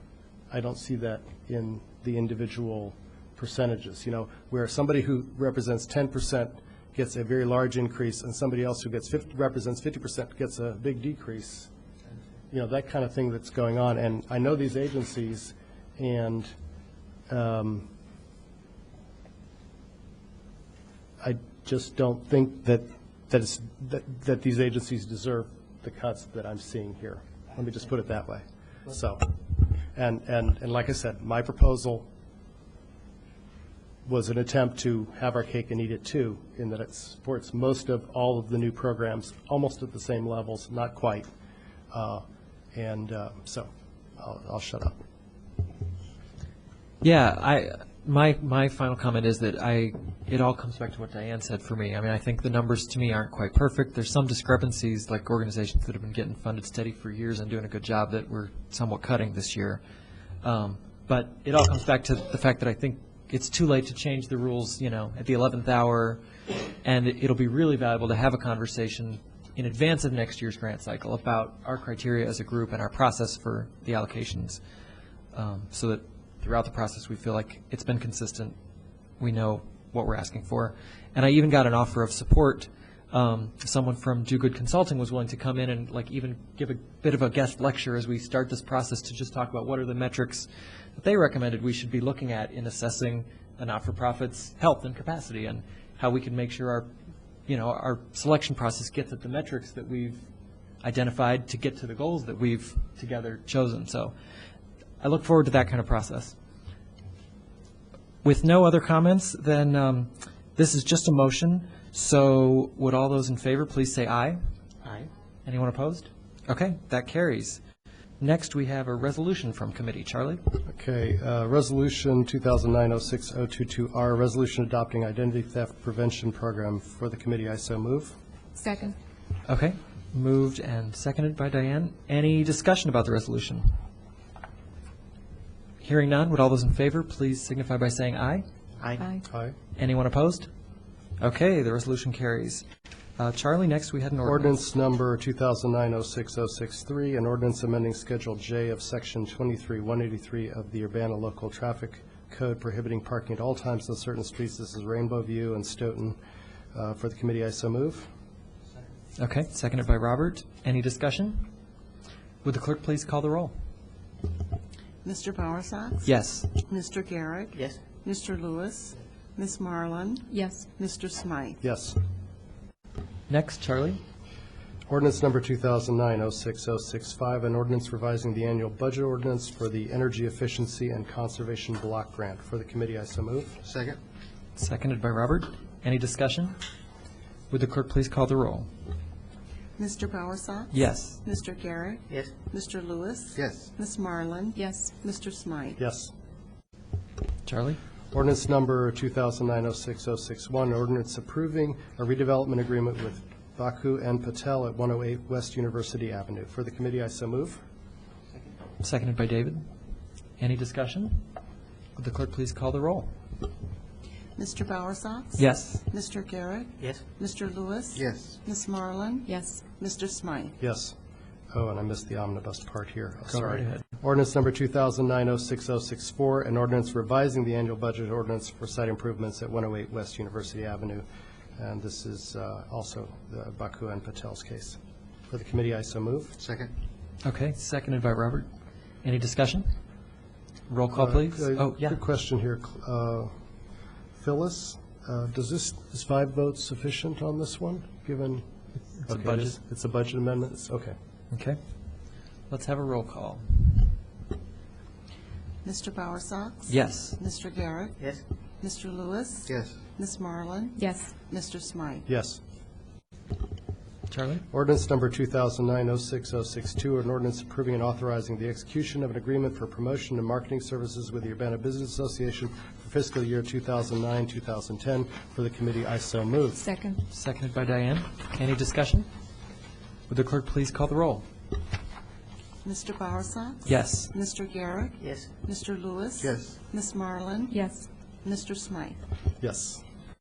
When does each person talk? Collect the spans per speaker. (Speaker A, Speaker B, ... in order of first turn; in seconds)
Speaker A: 0.5-11.7, 12.5-16.5, 17.3-17.9, 21.2-32.1, 34.0-41.3, 41.9-45.0, 120.7-128.2, 139.3-139.5, 144.2-156.2, 156.7-158.1, 171.6-172.0, 174.9-183.6, 195.8-196.1, 198.1-207.6, 220.6-220.9, 221.5-231.0, 231.6-234.8, 235.3-236.4, 240.9-243.3, 244.2-248.5, 249.1-250.9, 262.1-262.4, 264.5-276.6, 289.4-289.8
Speaker B: 47.0-59.8, 60.4-66.2, 66.8-74.6, 75.3-78.5, 79.2-96.9, 97.5-100.2, 100.8-104.1, 105.0-106.3, 108.2-114.4, 115.5-117.6, 118.2-120.4, 129.4-133.8, 135.8-138.4, 139.7-140.5, 141.2-142.6, 143.2-144.5, 159.2-161.5, 162.4-163.5, 166.0-166.5, 173.3-174.0, 184.6-186.6, 187.5-188.7, 190.7-191.2, 197.4-197.8, 208.8-209.6, 210.4-211.3, 211.9-213.1, 215.4-215.8, 223.3-223.8, 237.2-238.5, 239.0-239.7, 240.7-242.0, 249.0-249.6, 251.3-251.6, 252.5-253.9, 256.7-257.2, 264.1-264.4, 277.1-279.1, 280.1-281.2, 283.6-284.1
Speaker C: 128.6-128.9, 139.0-139.2, 170.3-170.7, 194.6-194.9, 219.2-219.7, 260.8-261.1, 276.6-277.0, 287.5-287.9
Speaker D: 138.8-139.1, 183.6-184.0, 193.3-193.7, 217.9-218.3, 236.4-236.7, 259.4-259.8, 285.0-285.3, 286.2-286.6
Speaker E: 165.0-171.6, 189.8-195.8, 214.3-220.6, 255.6-258.0, 258.6-262.1, 282.6-287.6, 288.2-289.0